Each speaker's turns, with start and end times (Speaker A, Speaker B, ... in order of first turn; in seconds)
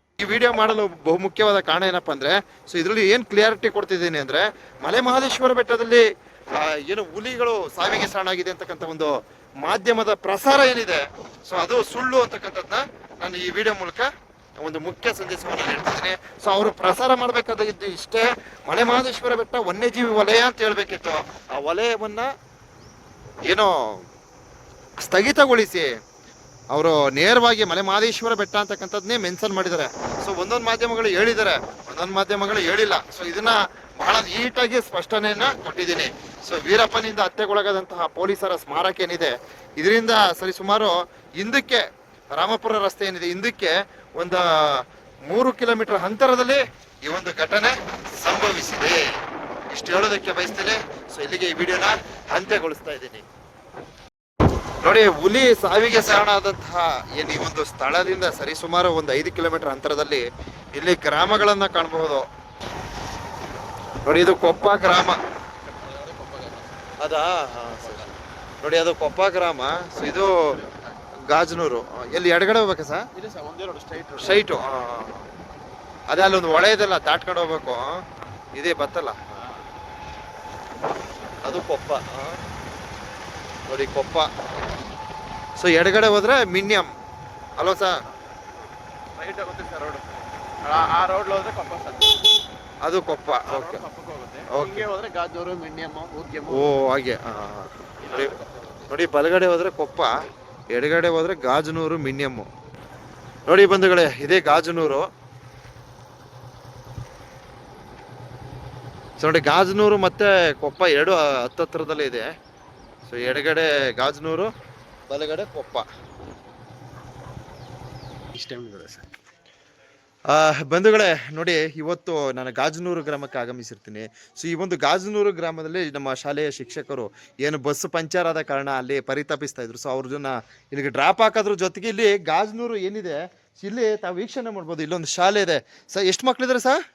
Speaker A: 0.2-22.3, 23.4-24.1, 25.0-25.9, 26.7-49.0, 49.7-53.3, 54.8-62.3, 64.0-65.2, 67.0-68.1, 68.6-70.6, 71.3-73.1, 74.2-75.3, 76.1-79.2, 81.4-82.4, 83.7-84.3, 85.6-86.9, 87.6-88.0, 92.8-93.8, 94.5-94.9, 96.5-98.3, 98.9-100.2, 100.7-102.5, 103.5-105.1, 109.2-112.3, 113.1-114.5, 115.1-115.9, 120.3-136.8
Speaker B: 65.7-67.0, 67.7-68.2, 70.5-70.8, 73.2-74.5, 89.2-92.3, 93.5-96.8, 98.0-98.7, 118.3-119.1